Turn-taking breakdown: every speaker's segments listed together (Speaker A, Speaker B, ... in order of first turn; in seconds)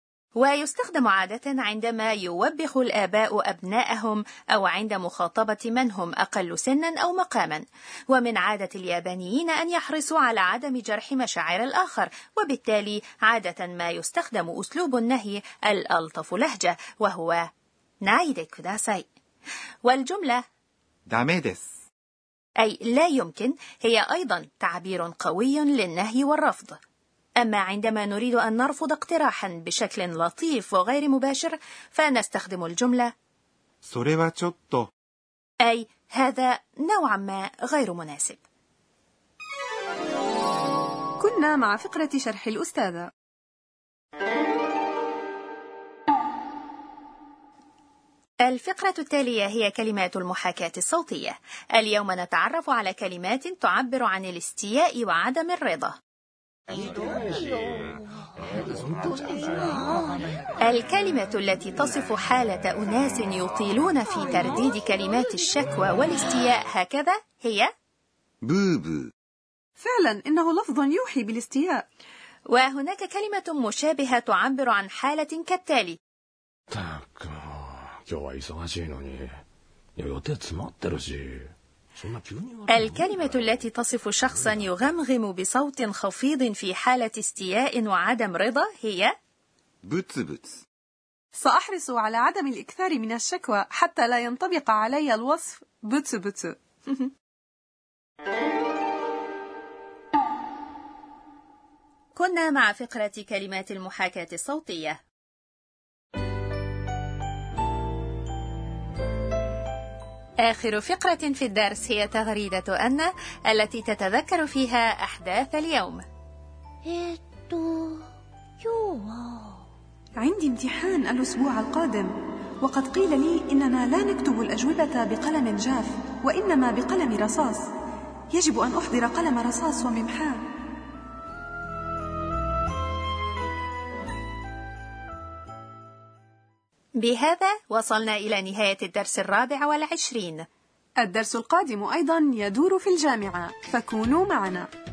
Speaker A: 0.4-17.4, 18.0-19.1, 19.8-20.4, 22.6-26.8, 27.4-33.1, 35.6-38.4, 48.4-56.0, 60.6-67.7, 72.5-76.0, 82.7-89.1, 102.1-105.0, 110.4-116.0, 137.0-140.4
Speaker B: 21.1-21.7, 33.8-34.9, 68.4-69.1, 89.8-90.6
Speaker C: 41.2-43.1, 69.8-71.8, 91.3-96.5, 120.2-127.7, 128.3-130.4, 141.0-144.7
Speaker D: 58.5-60.0, 76.7-79.4, 80.0-83.6
Speaker E: 116.8-118.0, 118.6-119.6